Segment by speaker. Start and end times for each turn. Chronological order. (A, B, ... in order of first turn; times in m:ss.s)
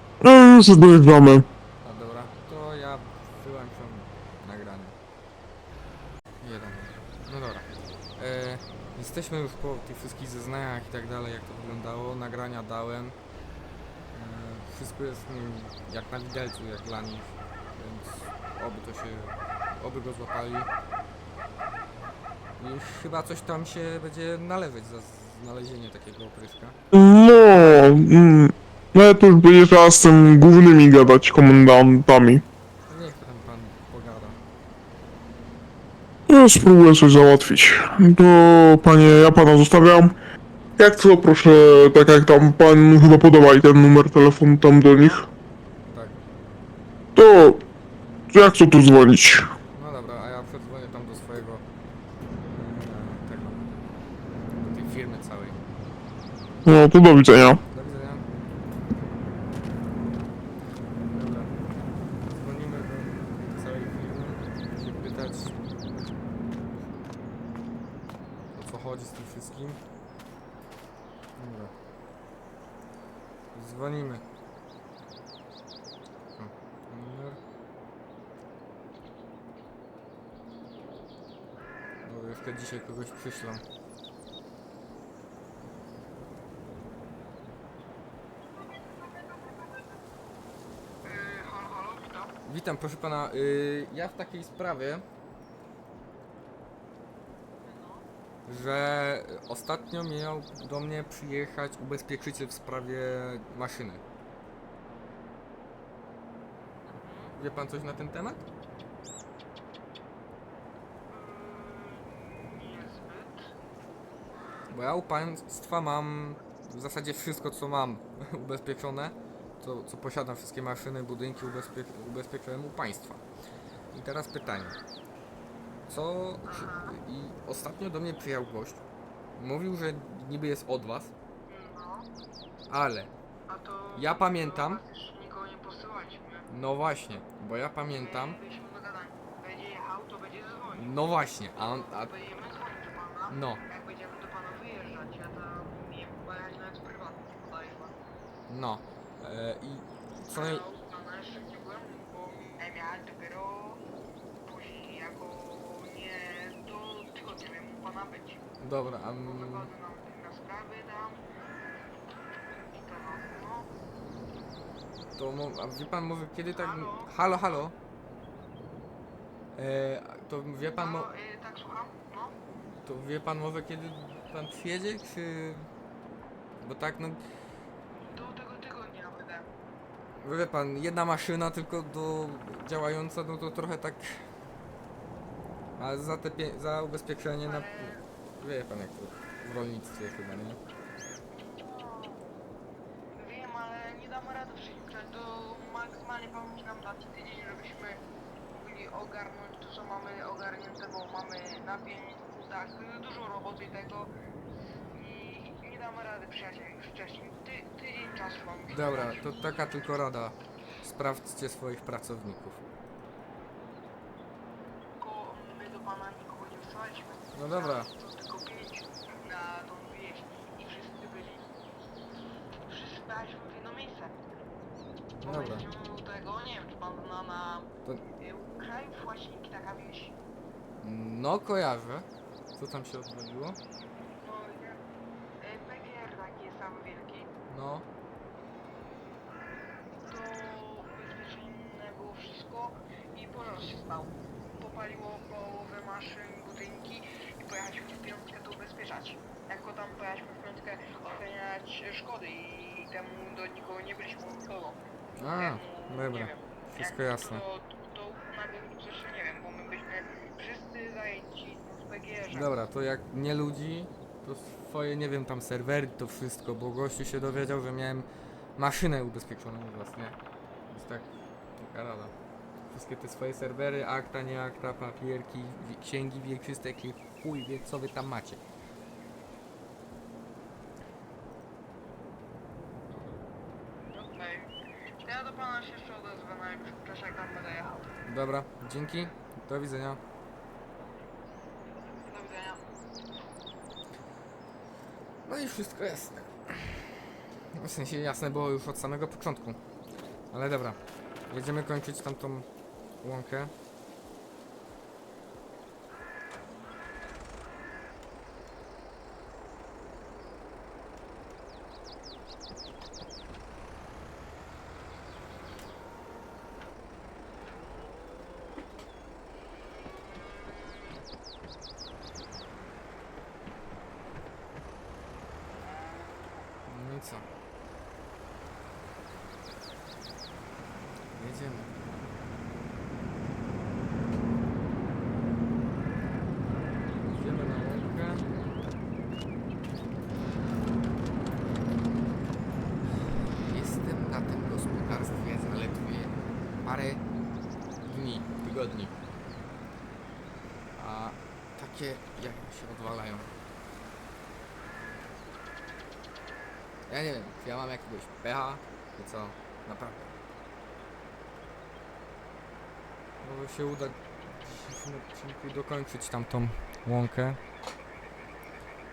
0:00.2-0:01.5 A
0:01.8-0:05.0 B
0:06.4-0:13.2 B
0:14.1-0:20.7 B
0:22.6-0:26.8 B
0:26.9-0:32.4 A
0:32.9-0:34.4 B
0:36.3-0:40.2 A
0:40.8-0:45.3 A
0:45.9-0:46.2 B
0:47.2-0:47.6 A
0:48.3-0:49.5 A
0:49.7-0:51.6 B
0:52.5-0:53.7 B
0:54.5-0:55.6 B
0:56.6-0:57.6 A
0:57.7-0:58.2 B
1:01.1-1:01.5 B
1:02.3-1:05.6 B
1:08.5-1:09.8 B
1:11.4-1:11.7 B
1:13.5-1:14.2 B
1:16.4-1:17.4 B
1:22.0-1:23.6 B
1:31.0-1:32.4 C
1:32.4-1:35.0 B
1:37.6-1:38.1 C
1:38.5-1:44.0 B
1:46.9-1:47.4 C
1:47.4-1:48.4 B
1:51.1-1:53.5 C
1:54.7-2:03.2 B
2:03.9-2:04.8 B
2:05.9-2:08.8 B
2:06.5-2:07.0 C
2:09.4-2:11.1 B
2:11.5-2:12.1 C
2:12.7-2:13.1 B
2:13.5-2:16.5 C
2:14.0-2:14.8 B
2:16.5-2:18.4 B
2:17.9-2:21.0 C
2:20.7-2:22.1 B
2:21.6-2:28.0 C
2:23.3-2:23.6 B
2:28.5-2:30.6 B
2:30.3-2:33.8 C
2:34.4-2:38.5 C
2:38.6-2:39.7 B
2:39.2-2:41.3 C
2:42.7-2:43.7 C
2:45.2-2:47.7 B
2:46.5-2:47.4 C
2:49.6-2:51.1 B
2:50.8-2:52.4 C
2:52.7-2:55.7 B
2:56.6-2:57.2 B
2:58.1-2:59.5 C
3:00.2-3:04.2 B
3:05.8-3:10.6 B
3:07.4-3:08.1 C
3:11.3-3:12.2 C
3:13.2-3:29.2 C
3:28.7-3:32.6 B
3:35.0-3:41.5 C
3:37.3-3:37.9 B
3:42.7-3:44.2 C
3:45.2-3:45.7 B
3:45.2-3:50.2 C
3:50.8-3:53.6 B
3:54.2-3:54.8 C
3:55.4-3:57.3 C
3:57.5-3:57.8 B
4:00.0-4:14.8 C
4:15.2-4:17.4 B
4:15.3-4:22.5 C
4:22.3-4:30.2 B
4:30.7-4:32.1 B
4:32.7-4:38.4 B
4:43.9-4:44.5 C
4:45.0-4:47.9 C
4:48.0-4:50.0 B
4:52.0-4:52.6 C
4:55.3-4:59.6 B
5:00.3-5:02.5 B
5:03.0-5:03.5 B
5:26.7-5:27.3 B
5:31.1-5:31.7 B
5:37.0-5:38.3 B
5:43.3-5:47.0 B
5:47.8-5:49.0 B
5:50.8-5:53.3 B
5:56.9-6:00.0 B
6:03.2-6:07.4 B